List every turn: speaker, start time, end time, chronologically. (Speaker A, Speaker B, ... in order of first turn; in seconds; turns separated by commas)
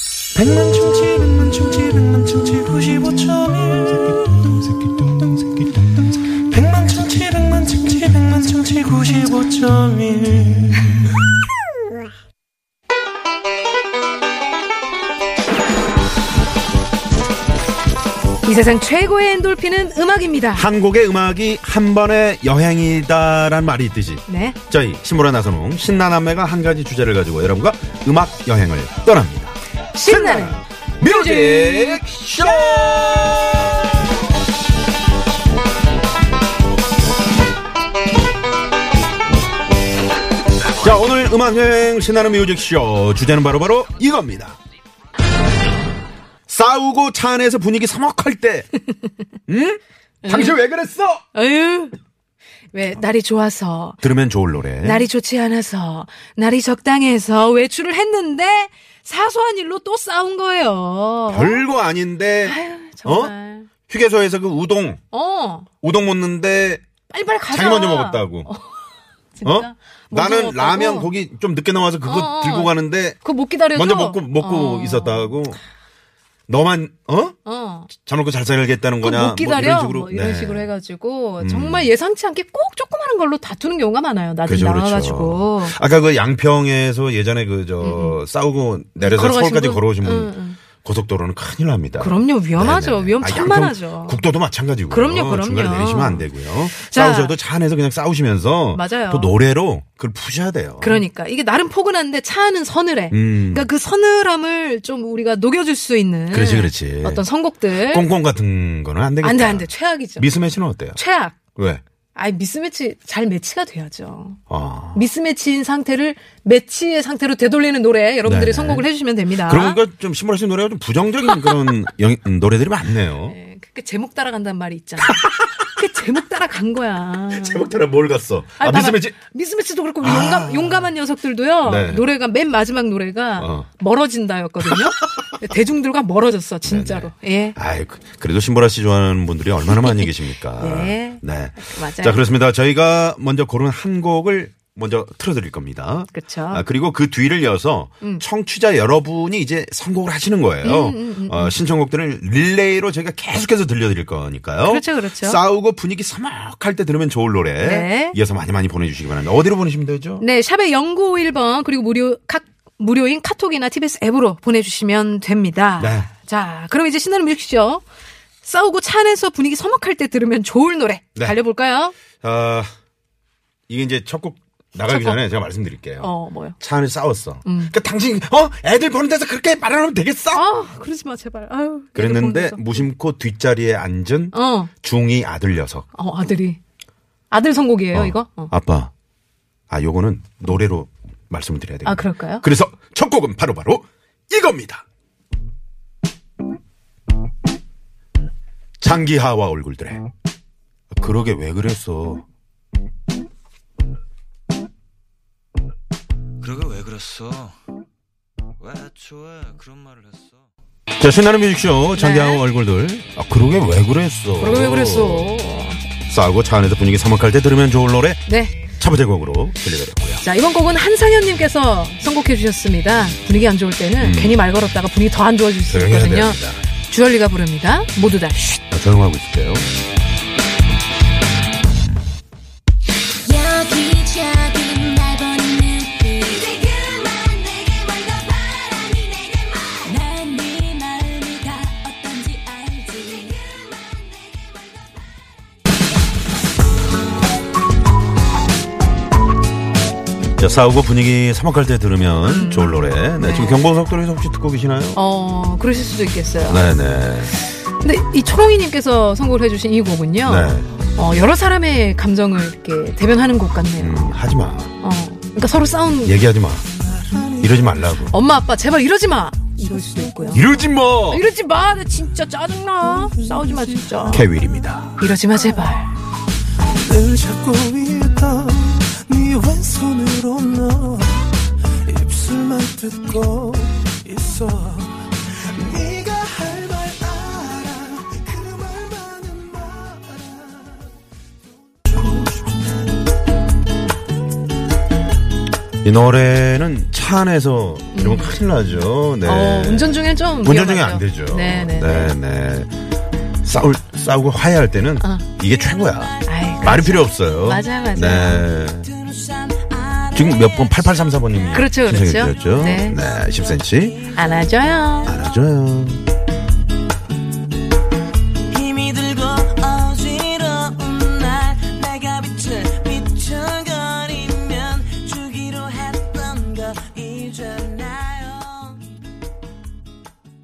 Speaker A: 0.3-10.8, Speaker B: 18.4-20.7, Speaker C: 20.5-34.0, Speaker B: 24.3-24.6, Speaker B: 29.9-33.0, Speaker C: 40.8-44.6, Speaker C: 46.5-48.7, Speaker C: 49.5-51.2, Speaker B: 50.2-50.6, Speaker B: 51.3-51.9, Speaker B: 52.7-54.0, Speaker C: 54.0-55.0, Speaker B: 54.8-61.6, Speaker C: 61.3-63.3, Speaker B: 62.4-63.7, Speaker C: 63.9-65.0, Speaker B: 65.1-65.7, Speaker C: 65.8-66.8, Speaker B: 67.1-68.8, Speaker C: 67.5-68.5, Speaker B: 69.3-71.1, Speaker C: 69.4-73.2, Speaker B: 72.0-75.3, Speaker C: 73.7-75.6, Speaker C: 76.5-77.3, Speaker B: 77.4-77.9, Speaker C: 77.9-80.7, Speaker B: 79.0-85.8, Speaker C: 81.4-81.9, Speaker C: 84.4-101.0, Speaker B: 87.8-88.2, Speaker B: 89.0-90.6, Speaker B: 92.0-94.2, Speaker B: 94.9-97.3, Speaker B: 98.7-99.3, Speaker B: 100.8-108.1, Speaker C: 103.1-103.7, Speaker C: 106.3-111.0, Speaker B: 109.2-110.3, Speaker B: 110.9-111.4, Speaker C: 111.5-111.8, Speaker B: 112.1-114.4, Speaker C: 114.5-115.0, Speaker B: 114.9-119.8, Speaker C: 118.2-118.8, Speaker C: 119.4-123.3, Speaker B: 123.2-127.7, Speaker C: 125.0-125.3, Speaker C: 127.3-129.2, Speaker B: 128.6-137.6, Speaker C: 130.0-130.9, Speaker C: 131.6-132.0, Speaker C: 133.4-133.7, Speaker C: 134.6-135.2, Speaker C: 136.6-160.2, Speaker B: 139.7-140.1, Speaker B: 140.6-142.2, Speaker B: 146.1-146.6, Speaker B: 150.6-151.6, Speaker B: 154.6-155.4, Speaker B: 157.6-158.2, Speaker B: 160.2-167.8, Speaker C: 165.8-166.1, Speaker B: 168.4-171.9, Speaker C: 172.2-172.7, Speaker C: 173.7-180.4, Speaker B: 174.9-175.2, Speaker B: 176.0-176.6, Speaker B: 177.4-177.7, Speaker B: 180.3-182.9, Speaker C: 181.9-185.9, Speaker B: 184.3-184.7, Speaker B: 185.9-186.6, Speaker B: 187.3-188.5, Speaker C: 187.9-188.9, Speaker C: 189.7-194.8, Speaker B: 191.8-192.4, Speaker C: 198.8-200.0, Speaker C: 200.9-202.2, Speaker D: 206.4-207.6, Speaker D: 208.6-210.4, Speaker C: 211.0-215.3, Speaker B: 211.9-212.4, Speaker B: 214.4-215.8, Speaker C: 216.1-220.2, Speaker B: 218.2-218.6, Speaker B: 220.2-228.6, Speaker C: 224.0-224.4, Speaker C: 225.7-226.6, Speaker C: 228.7-229.7, Speaker E: 233.2-244.5, Speaker C: 250.4-255.0, Speaker B: 252.2-253.6, Speaker B: 254.9-256.6, Speaker C: 256.5-257.4, Speaker B: 257.5-264.2, Speaker C: 260.2-260.7, Speaker C: 263.8-264.7, Speaker B: 264.8-266.2, Speaker C: 266.0-266.7, Speaker A: 266.9-267.4, Speaker C: 267.4-268.1, Speaker B: 268.1-270.5, Speaker C: 270.3-271.2, Speaker B: 271.1-274.3, Speaker C: 274.1-275.0, Speaker B: 275.0-275.9, Speaker A: 276.7-290.6, Speaker A: 291.9-292.6, Speaker C: 295.8-302.7, Speaker B: 297.9-298.4, Speaker B: 299.2-302.2, Speaker C: 303.4-308.9, Speaker B: 306.2-308.4, Speaker E: 309.1-310.1, Speaker C: 310.1-314.0, Speaker B: 311.5-313.0, Speaker B: 314.1-315.2, Speaker C: 315.0-316.0, Speaker E: 318.5-328.8